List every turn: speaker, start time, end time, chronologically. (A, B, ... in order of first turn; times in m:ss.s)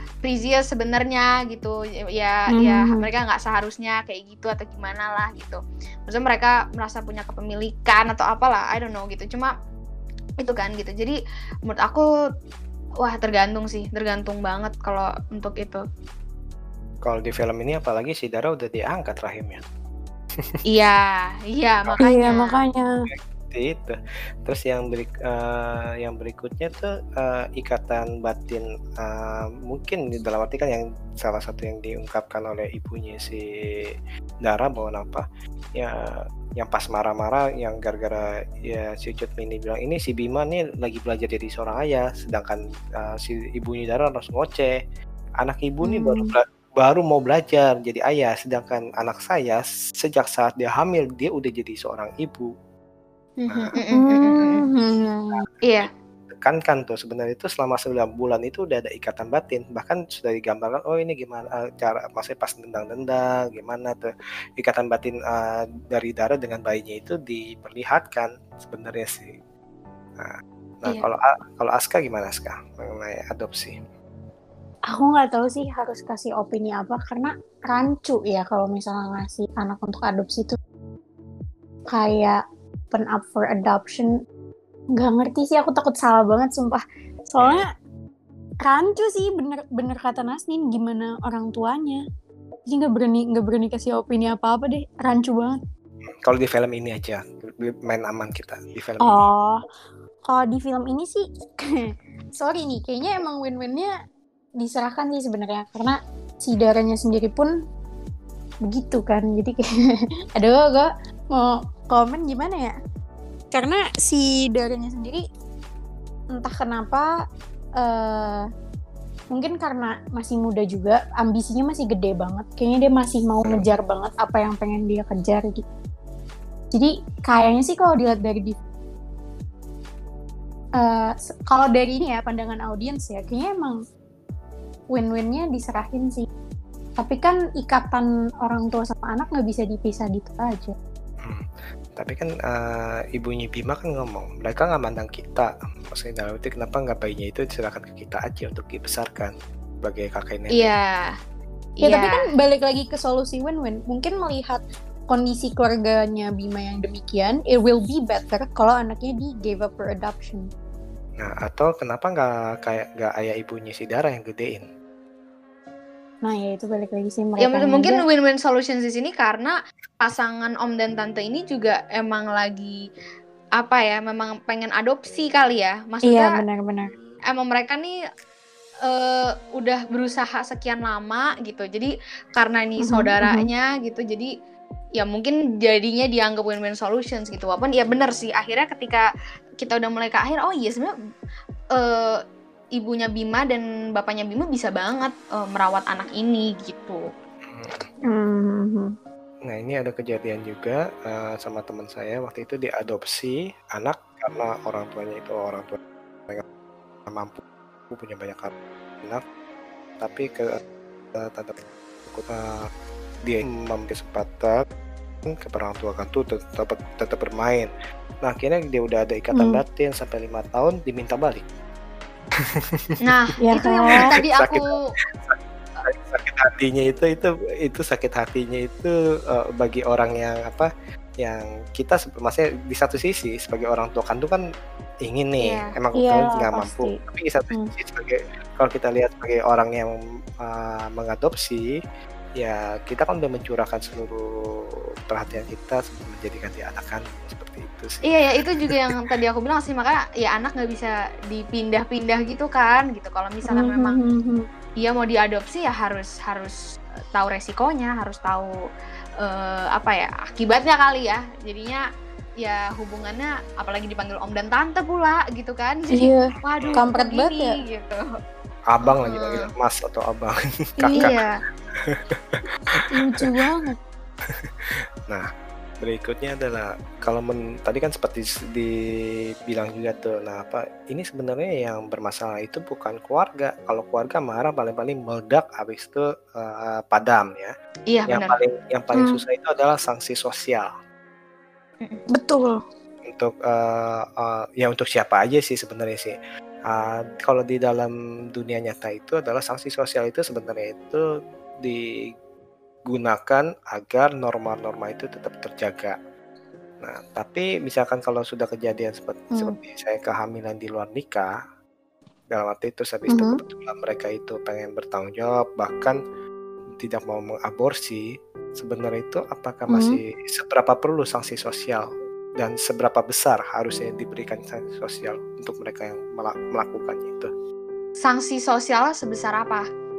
0:00.2-0:09.5 A
0:02.5-0:03.0 B
0:10.4-0:12.1 A
0:13.0-0:15.8 A
0:17.0-0:19.6 C
0:20.7-0:22.5 A
0:21.9-0:22.4 C
0:22.0-0:22.9 B
0:23.1-0:35.2 C
0:35.8-0:44.8 C
0:45.4-0:52.5 C
0:45.8-0:46.3 B
0:53.4-0:54.6 A
0:53.9-0:55.4 B
0:56.3-1:09.4 C
1:10.2-1:13.8 C
1:14.9-1:20.6 B
1:21.9-1:22.4 B
1:22.9-1:24.1 B
1:25.0-1:27.7 B
1:27.4-1:27.7 C
1:28.6-1:32.0 B
1:32.7-1:35.6 B
1:36.1-1:39.2 C
1:39.0-1:39.6 B
1:40.3-1:43.9 B
1:44.6-1:47.5 B
1:48.6-1:49.6 B
1:50.4-1:52.8 B
1:53.5-1:55.2 B
1:56.3-1:57.1 B
1:57.8-1:58.5 B
1:59.3-2:05.6 B
2:06.7-2:08.6 B
2:10.8-2:13.8 B
2:14.9-2:16.3 B
2:17.0-2:20.8 B
2:21.2-2:30.7 C
2:30.5-2:31.2 A
2:31.8-2:32.3 A
2:31.8-2:40.4 B
2:41.2-2:44.7 C
2:46.2-2:48.0 B
2:47.4-2:52.8 A
2:53.6-2:56.3 A
2:56.1-2:56.9 B
2:57.3-2:58.0 A
2:58.8-3:04.3 A
3:02.8-3:03.5 B
3:05.0-3:09.1 A
3:09.6-3:10.9 A
3:11.7-3:12.2 A
3:12.8-3:17.1 A
3:17.4-3:17.9 C
3:18.1-3:18.9 B
3:19.5-3:26.4 C
3:27.1-3:29.2 C
3:30.0-3:30.6 C
3:31.2-3:32.7 C
3:33.2-3:34.6 C
3:35.3-3:37.7 C
3:38.2-3:41.5 C
3:39.4-3:39.6 B
3:42.5-3:43.0 C
3:43.0-3:44.8 A
3:43.4-3:44.1 B
3:44.0-3:54.4 C
3:55.0-4:01.7 C
3:55.4-3:55.7 A
3:56.0-3:57.0 B
4:02.4-4:08.0 C
4:08.1-4:14.0 A
4:08.6-4:09.0 C
4:13.5-4:14.4 B
4:14.8-4:16.6 A
4:17.1-4:18.5 A
4:19.2-4:21.8 A
4:22.4-4:28.0 A
4:25.9-4:27.6 B
4:28.7-4:32.8 C
4:28.8-4:29.5 A
4:30.8-4:31.1 B
4:31.0-4:31.4 A
4:32.9-4:33.8 B
4:34.3-4:34.5 C
4:35.8-4:38.8 C
4:39.5-4:47.5 C
4:47.9-4:48.4 A
4:48.1-4:50.7 C
4:52.1-4:52.6 B
4:53.1-4:56.1 C
4:56.7-5:01.0 C
5:02.9-5:06.0 C
5:06.8-5:11.3 C
5:12.3-5:16.0 C
5:13.1-5:13.4 B
5:16.8-5:18.0 C
5:18.6-5:27.3 C
5:19.7-5:20.0 B
5:28.0-5:29.7 A